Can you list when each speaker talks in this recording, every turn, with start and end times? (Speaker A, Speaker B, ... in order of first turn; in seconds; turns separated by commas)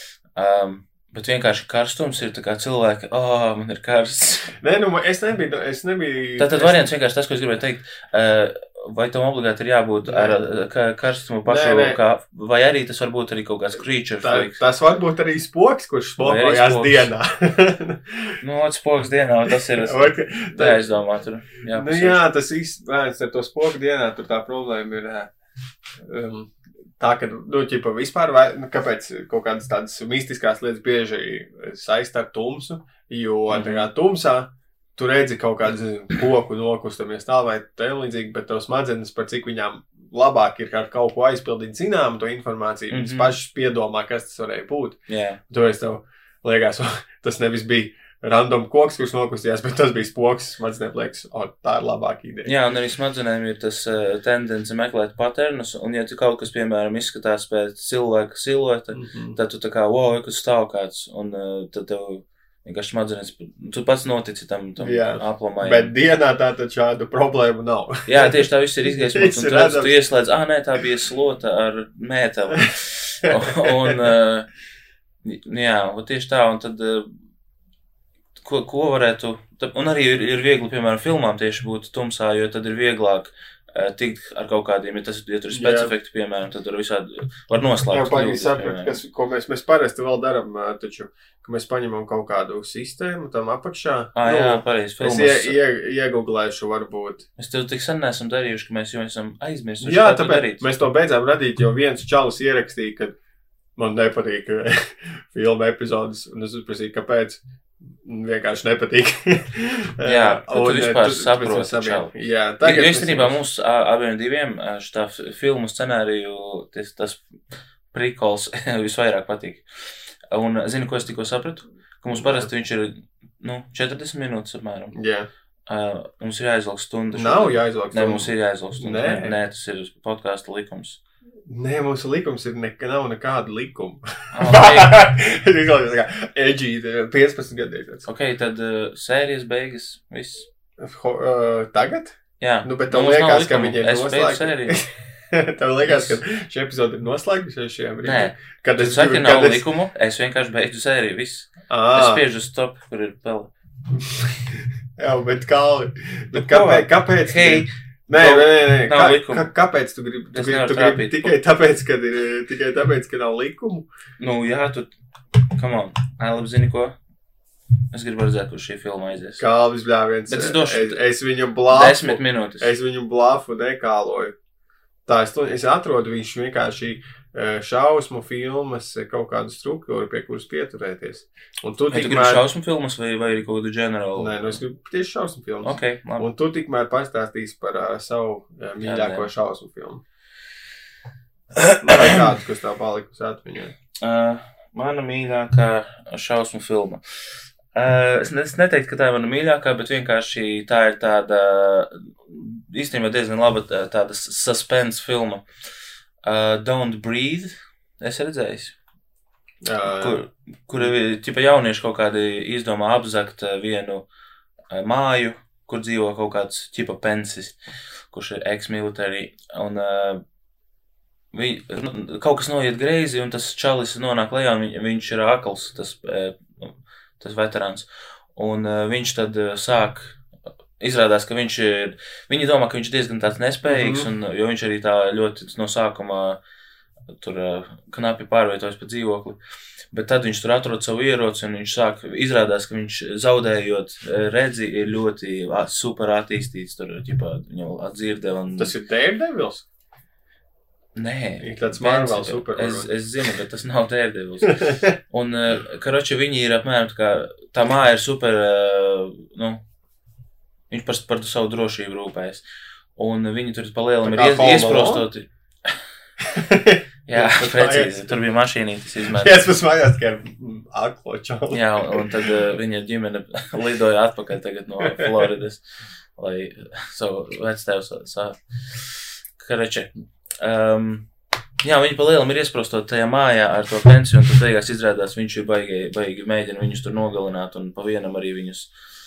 Speaker A: 0.3-4.5, Speaker B: 4.6-6.9, Speaker A: 6.4-14.6, Speaker B: 10.1-10.4, Speaker B: 11.5-12.0, Speaker B: 14.2-18.3, Speaker A: 16.2-17.1, Speaker A: 18.4-22.2, Speaker B: 19.5-20.8, Speaker B: 21.7-25.3, Speaker B: 26.0-52.5, Speaker A: 33.5-33.9, Speaker A: 42.9-43.3, Speaker A: 45.1-45.4, Speaker A: 52.5-65.9, Speaker B: 58.9-59.4, Speaker B: 64.8-70.0, Speaker A: 68.1-74.5, Speaker B: 73.3-74.1, Speaker A: 75.2-77.1, Speaker A: 78.4-89.0, Speaker B: 85.5-85.9, Speaker B: 87.9-97.2, Speaker A: 94.2-95.6, Speaker A: 97.4-100.7, Speaker B: 99.8-103.2, Speaker B: 103.8-107.4, Speaker B: 108.0-113.4, Speaker A: 110.0-117.3, Speaker A: 117.9-119.6, Speaker A: 120.3-125.0, Speaker B: 122.1-122.5, Speaker B: 124.9-125.3, Speaker A: 125.7-131.0, Speaker B: 127.1-129.4, Speaker B: 131.5-138.1, Speaker A: 134.3-135.1, Speaker A: 138.1-140.5, Speaker B: 140.8-149.6, Speaker A: 142.4-144.8, Speaker A: 145.9-146.2, Speaker A: 148.0-153.5, Speaker B: 151.7-152.2, Speaker B: 154.1-163.9, Speaker A: 156.3-159.5, Speaker A: 160.3-161.4, Speaker A: 164.2-164.9, Speaker A: 165.6-166.9, Speaker A: 167.9-169.4, Speaker B: 169.4-174.3, Speaker A: 170.3-171.0, Speaker A: 171.7-172.7, Speaker B: 175.1-182.4, Speaker A: 181.9-184.6, Speaker B: 184.2-190.0, Speaker A: 185.6-186.3, Speaker A: 188.8-189.3, Speaker A: 191.7-192.2, Speaker B: 191.8-193.7, Speaker A: 194.0-197.0, Speaker A: 197.8-205.4, Speaker A: 206.2-208.8, Speaker B: 209.6-210.2, Speaker A: 209.9-214.1, Speaker A: 214.7-217.6, Speaker A: 218.1-220.2, Speaker A: 221.3-230.2, Speaker A: 230.8-236.4, Speaker B: 233.7-234.1, Speaker A: 237.2-239.4, Speaker A: 239.9-248.7, Speaker B: 248.6-249.7, Speaker A: 251.0-259.6, Speaker B: 251.4-253.3, Speaker B: 254.5-255.0, Speaker A: 260.7-262.4, Speaker A: 263.0-265.8, Speaker B: 264.1-265.1, Speaker B: 266.2-268.1, Speaker A: 267.1-269.4, Speaker B: 269.1-272.3, Speaker A: 271.5-275.6, Speaker B: 274.9-275.2, Speaker A: 276.2-278.4, Speaker A: 279.4-281.1, Speaker A: 281.6-288.7